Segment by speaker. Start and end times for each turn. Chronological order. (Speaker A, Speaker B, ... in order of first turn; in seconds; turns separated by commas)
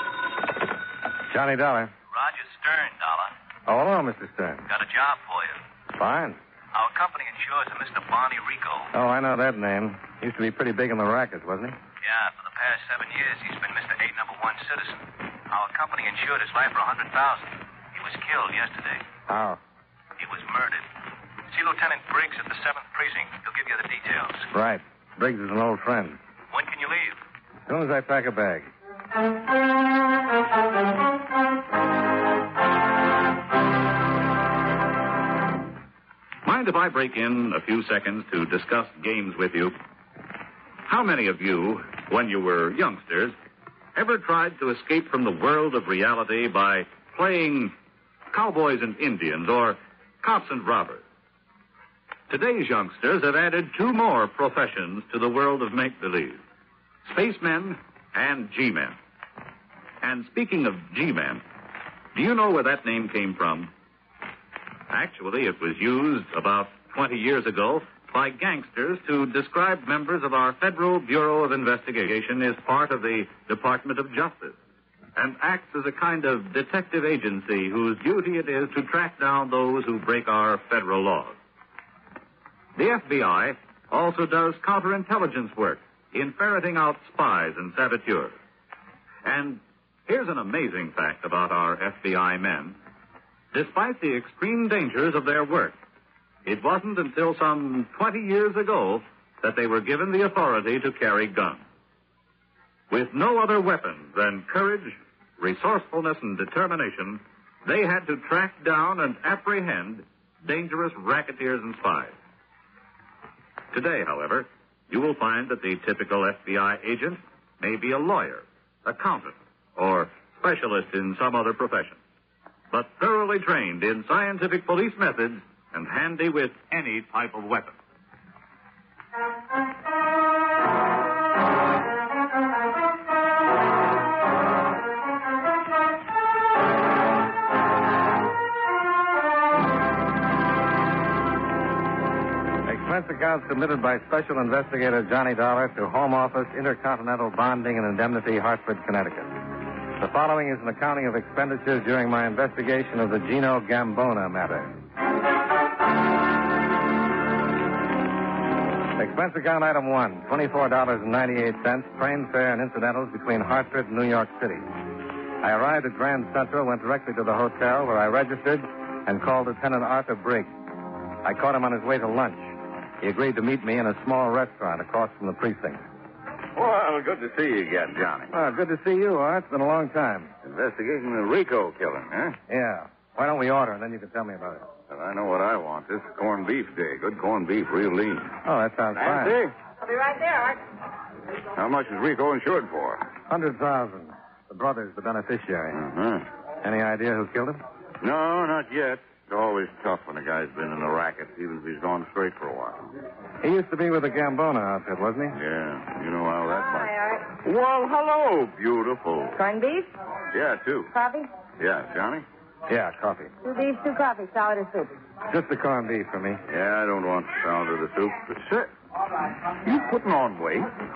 Speaker A: 1.3-1.9, Speaker B: 2.1-3.3, Speaker A: 3.7-4.7, Speaker B: 4.7-5.6, Speaker A: 6.0-6.4, Speaker B: 6.7-8.9, Speaker A: 8.9-11.8, Speaker B: 12.0-19.0, Speaker A: 19.3-19.6, Speaker B: 20.2-20.9, Speaker B: 21.5-24.5, Speaker A: 24.5-26.2, Speaker B: 26.5-27.2, Speaker A: 27.7-28.7, Speaker C: 36.4-39.8, Speaker C: 40.9-43.3, Speaker C: 43.9-47.7, Speaker C: 48.3-51.0, Speaker C: 52.3-56.4, Speaker C: 57.0-59.0, Speaker C: 60.0-61.4, Speaker C: 62.1-63.7, Speaker C: 64.9-74.6, Speaker C: 75.2-81.3, Speaker C: 82.8-88.3, Speaker C: 89.2-92.8, Speaker C: 93.5-95.8, Speaker C: 96.4-101.6, Speaker C: 102.9-112.1, Speaker C: 113.7-122.0, Speaker C: 122.7-127.8, Speaker A: 142.7-149.4, Speaker A: 149.9-154.7, Speaker A: 159.0-164.7, Speaker A: 165.4-170.5, Speaker A: 171.2-175.8, Speaker D: 176.6-178.3, Speaker A: 178.3-180.3, Speaker D: 180.4-182.4, Speaker A: 182.5-184.7, Speaker D: 184.9-188.3, Speaker A: 188.4-189.4, Speaker D: 188.9-189.5, Speaker E: 189.8-190.6, Speaker D: 191.5-193.1, Speaker A: 193.3-195.8, Speaker D: 195.7-196.2, Speaker A: 196.6-197.6, Speaker D: 198.0-202.9, Speaker A: 203.4-205.4, Speaker D: 205.3-209.4, Speaker E: 206.8-207.2, Speaker E: 209.3-209.9, Speaker D: 210.3-210.9, Speaker E: 210.9-211.3, Speaker D: 211.6-212.2, Speaker A: 212.7-213.3, Speaker E: 213.4-215.0, Speaker A: 215.3-216.4, Speaker D: 216.5-218.7, Speaker D: 219.6-220.7